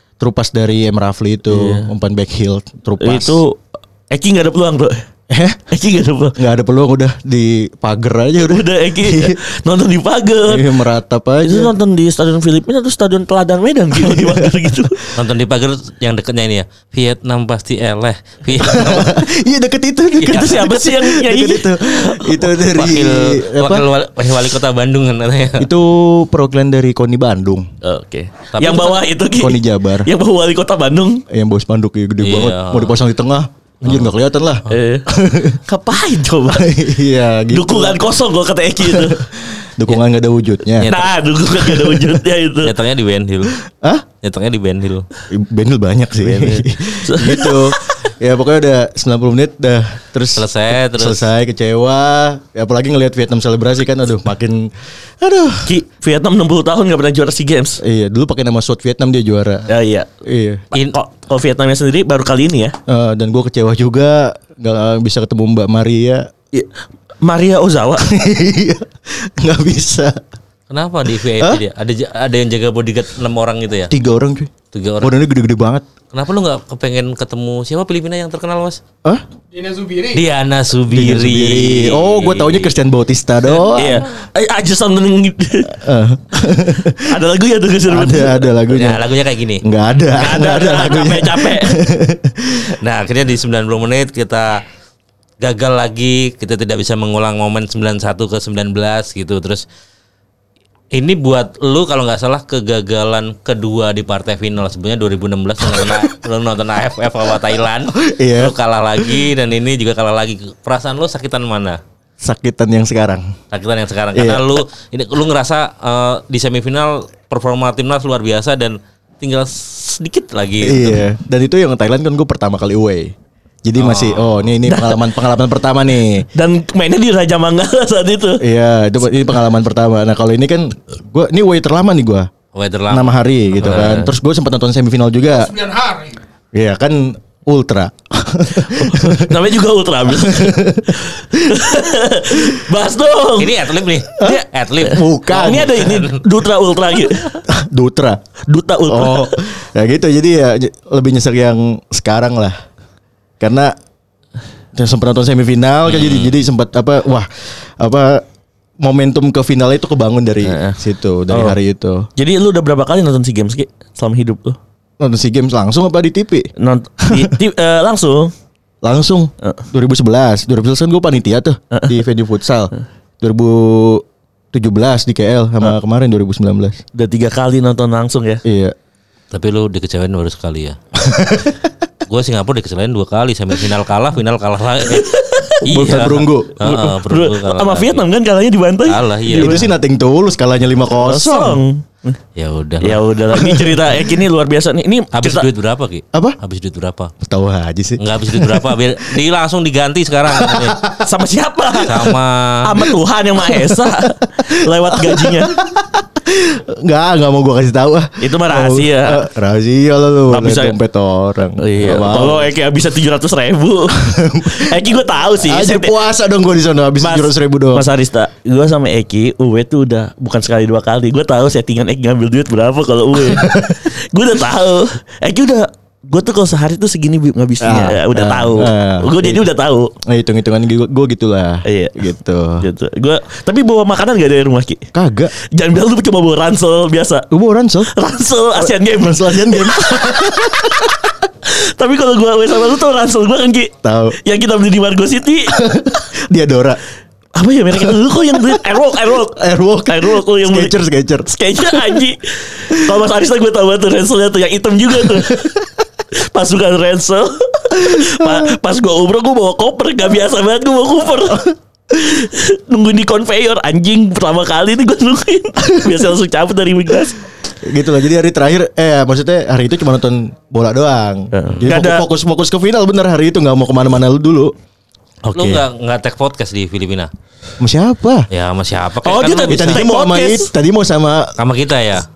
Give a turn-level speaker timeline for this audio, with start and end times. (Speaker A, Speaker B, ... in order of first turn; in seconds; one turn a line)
Speaker A: 0.2-3.4
Speaker B: 1.5-1.9
Speaker B: 3.0-5.0
Speaker A: 5.3-5.6
Speaker B: 5.7-6.4
Speaker A: 6.4-9.4
Speaker B: 8.5-10.7
Speaker A: 10.5-11.7
Speaker B: 11.4-15.0
Speaker A: 13.9-14.9
Speaker C: 15.1-19.2
Speaker A: 18.6-23.9
Speaker C: 20.2-20.7
Speaker B: 20.2-22.5
Speaker C: 22.6-25.7
Speaker A: 25.6-27.7
Speaker B: 27.8-31.2
Speaker C: 28.5-29.1
Speaker A: 29.3-30.1
Speaker A: 31.3-35.6
Speaker C: 32.2-33.0
Speaker C: 33.8-34.1
Speaker B: 34.7-35.1
Speaker B: 35.7-36.7
Speaker A: 36.5-38.0
Speaker B: 37.5-39.3
Speaker A: 38.8-40.9
Speaker C: 40.8-41.2
Speaker B: 40.8-42.7
Speaker A: 41.6-42.2
Speaker C: 42.6-43.5
Speaker A: 43.6-44.1
Speaker C: 44.2-45.1
Speaker A: 45.3-55.7
Speaker B: 46.2-48.0
Speaker C: 50.4-51.3
Speaker B: 55.6-57.8
Speaker A: 57.8-59.7
Speaker B: 59.7-60.1
Speaker A: 60.2-60.6
Speaker B: 60.7-62.8
Speaker A: 62.9-66.3
Speaker B: 67.2-68.1
Speaker A: 68.0-70.2
Speaker C: 70.7-73.9
Speaker A: 71.4-71.6
Speaker A: 73.9-75.9
Speaker C: 74.7-75.2
Speaker C: 76.1-78.8
Speaker C: 80.0-82.8
Speaker A: 80.9-84.1
Speaker B: 83.8-85.8
Speaker A: 85.7-87.2
Speaker B: 86.9-88.5
Speaker A: 87.9-89.0
Speaker C: 88.7-89.6
Speaker A: 89.6-92.7
Speaker B: 90.1-91.8
Speaker C: 92.7-94.6
Speaker C: 95.4-99.7
Speaker C: 100.9-111.8
Speaker A: 105.7-106.0
Speaker A: 107.9-109.3
Speaker A: 112.2-113.4
Speaker C: 113.5-121.0
Speaker A: 114.1-114.6
Speaker A: 120.6-126.3
Speaker C: 123.8-124.5
Speaker B: 124.7-125.1
Speaker B: 126.3-128.4
Speaker A: 128.4-132.3
Speaker C: 132.5-134.1
Speaker A: 132.9-135.8
Speaker A: 136.5-139.4
Speaker B: 138.6-147.4
Speaker A: 140.1-141.6
Speaker C: 143.4-146.3
Speaker A: 144.2-145.8
Speaker A: 147.5-148.2
Speaker B: 148.5-149.4
Speaker A: 148.9-152.6
Speaker A: 153.4-153.8
Speaker A: 154.8-157.3
Speaker C: 155.9-156.4
Speaker A: 157.8-158.2
Speaker A: 158.8-162.1
Speaker B: 160.4-161.6
Speaker B: 162.2-164.6
Speaker A: 165.0-166.5
Speaker B: 166.6-168.3
Speaker A: 167.1-167.3
Speaker A: 168.8-176.8
Speaker B: 171.7-172.0
Speaker B: 176.9-178.4
Speaker A: 178.4-178.8
Speaker C: 179.3-180.8
Speaker A: 181.0-181.6
Speaker C: 182.1-185.1
Speaker B: 184.9-185.7
Speaker A: 185.7-186.6
Speaker C: 185.7-188.1
Speaker B: 186.6-189.7
Speaker C: 188.9-189.7
Speaker A: 189.3-191.6
Speaker B: 191.0-192.2
Speaker C: 192.3-193.1
Speaker B: 192.8-195.5
Speaker C: 195.1-197.1
Speaker A: 197.2-198.8
Speaker C: 198.0-200.8
Speaker A: 200.3-201.1
Speaker B: 201.0-205.6
Speaker C: 201.8-202.8
Speaker A: 203.6-203.9
Speaker A: 204.4-212.5
Speaker B: 208.2-209.2
Speaker B: 210.3-210.8
Speaker B: 211.6-215.9
Speaker A: 213.9-214.8
Speaker A: 215.4-217.9
Speaker B: 217.0-229.9
Speaker A: 223.2-223.8
Speaker A: 227.6-229.4
Speaker A: 230.0-232.6
Speaker B: 231.7-237.3
Speaker A: 234.9-235.3
Speaker A: 237.3-237.9
Speaker B: 237.9-245.7
Speaker A: 238.6-240.9
Speaker A: 243.8-244.2
Speaker A: 245.5-246.8
Speaker B: 247.4-250.7
Speaker A: 248.4-252.1
Speaker B: 251.3-255.6
Speaker A: 252.7-252.9
Speaker A: 255.0-255.5
Speaker B: 256.1-267.2
Speaker A: 257.8-258.5
Speaker A: 267.6-274.5
Speaker B: 271.3-272.1
Speaker A: 275.3-275.6
Speaker C: 275.3-277.1
Speaker A: 277.6-278.3
Speaker C: 278.3-279.8
Speaker B: 279.1-280.5
Speaker A: 279.5-281.3
Speaker C: 281.4-282.0